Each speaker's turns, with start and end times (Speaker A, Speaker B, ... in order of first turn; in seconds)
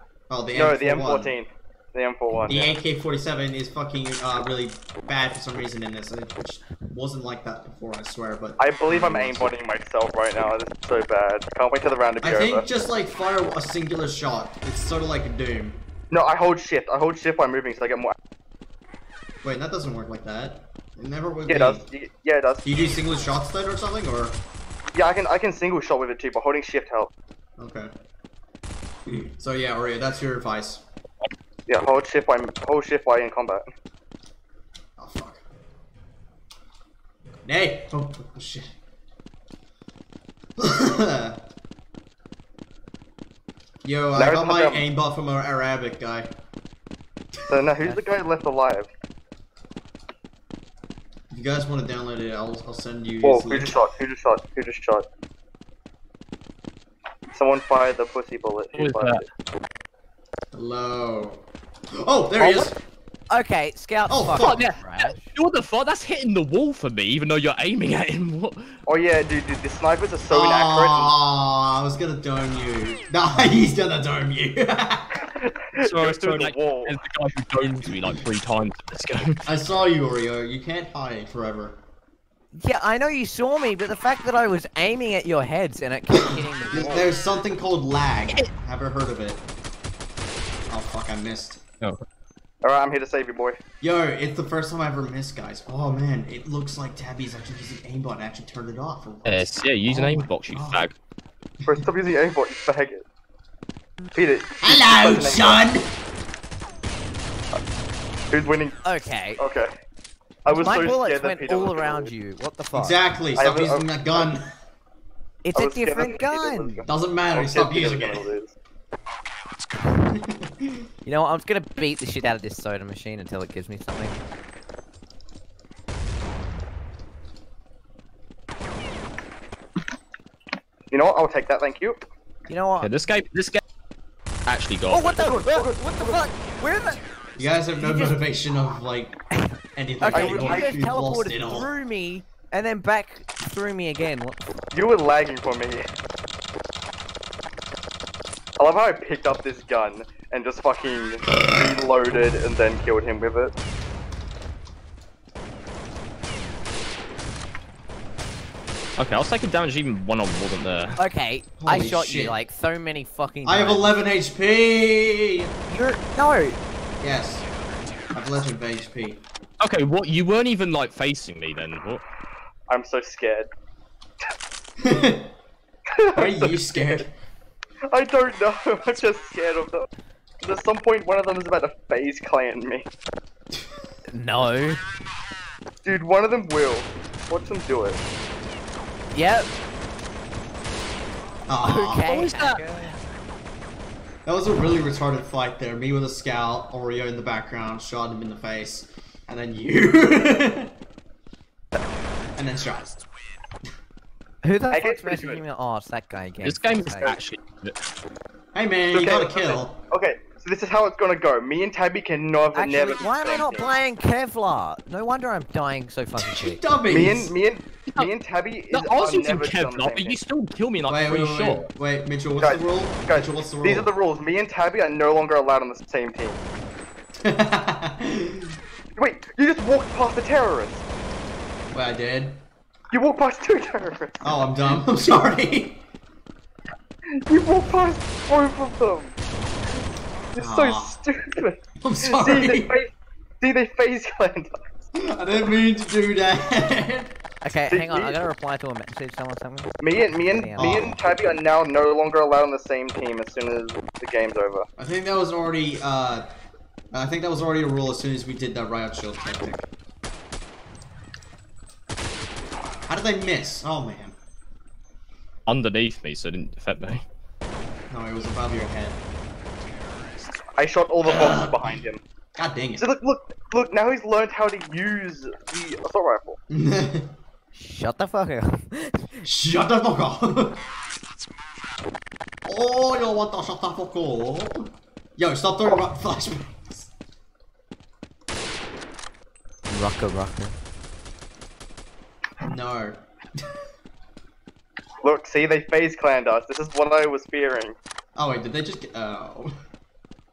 Speaker A: 0.3-1.3, 2.5-9.5, 12.2-15.8, 19.4-21.8, 22.6-24.4, 27.6-27.9, 29.1-30.8, 35.0-35.4, 37.4-38.7, 40.6-41.4, 43.8-46.3, 51.3-53.7, 60.5-62.7, 64.1-64.6, 70.3-75.1, 79.5-81.8, 86.2-89.4, 90.7-91.6, 93.8-100.9, 104.6-105.9, 112.7-114.5, 116.8-118.2, 120.0-120.9, 137.4-139.2, 139.8-141.7, 161.6-162.4, 163.4-165.5, 167.0-167.5, 168.1-169.2, 174.8-175.3, 176.1-177.1, 191.5-192.1, 194.2-200.7, 202.4-203.0, 208.5-209.8, 216.2-217.3, 220.9-223.9, 227.2-228.6, 231.7-232.4, 234.2-235.8, 240.3-241.0, 241.8-242.7, 244.9-247.1, 250.6-251.0, 254.8-256.3, 256.9-259.7, 262.9-264.1, 267.9-269.0, 271.0-271.8, 272.4-272.8, 276.5-277.1, 279.2-280.6, 282.4-286.9, 292.4-293.6, 298.1-299.5
Speaker B: 0.5-2.7, 8.6-12.6, 16.1-18.1, 21.5-22.8, 24.9-27.1, 31.7-33.6, 44.1-44.8, 47.5-48.9, 53.2-55.0, 57.3-59.2, 68.9-71.1, 75.3-77.0, 92.6-93.6, 101.6-103.0, 104.2-105.6, 108.3-108.8, 109.4-109.7, 110.4-112.1, 113.4-114.2, 115.5-118.5, 130.9-132.0, 135.0-136.3, 140.1-140.8, 144.7-145.8, 148.6-153.5, 172.7-173.5, 175.9-177.0, 177.9-179.9, 180.4-182.9, 185.8-188.0, 204.7-205.4, 208.9-213.7, 216.9-220.2, 222.4-226.4, 228.9-230.8, 232.9-234.3, 237.2-239.1, 240.3-244.8, 247.7-248.1, 249.8-254.7, 270.6-272.0, 272.8-276.4, 295.0-297.7
Speaker C: 58.7-59.2, 64.4-68.8, 75.8-79.5, 99.2-100.9, 132.8-133.6, 134.5-135.1, 159.0-161.0, 169.6-172.0, 192.1-192.6, 206.4-207.8, 218.7-221.7, 265.5-267.0
Speaker D: 62.4-62.7, 63.3-65.3, 82.5-87.1, 108.8-109.4, 110.5-113.0, 115.4-116.8, 121.0-124.2, 132.5-132.9, 134.9-137.0, 137.7-138.2, 139.3-144.6, 161.0-164.0, 165.7-166.6, 184.1-184.8, 189.1-189.5, 191.6-192.9, 204.4-207.2, 212.5-216.6, 247.4-250.9, 277.5-279.2, 289.7-290.6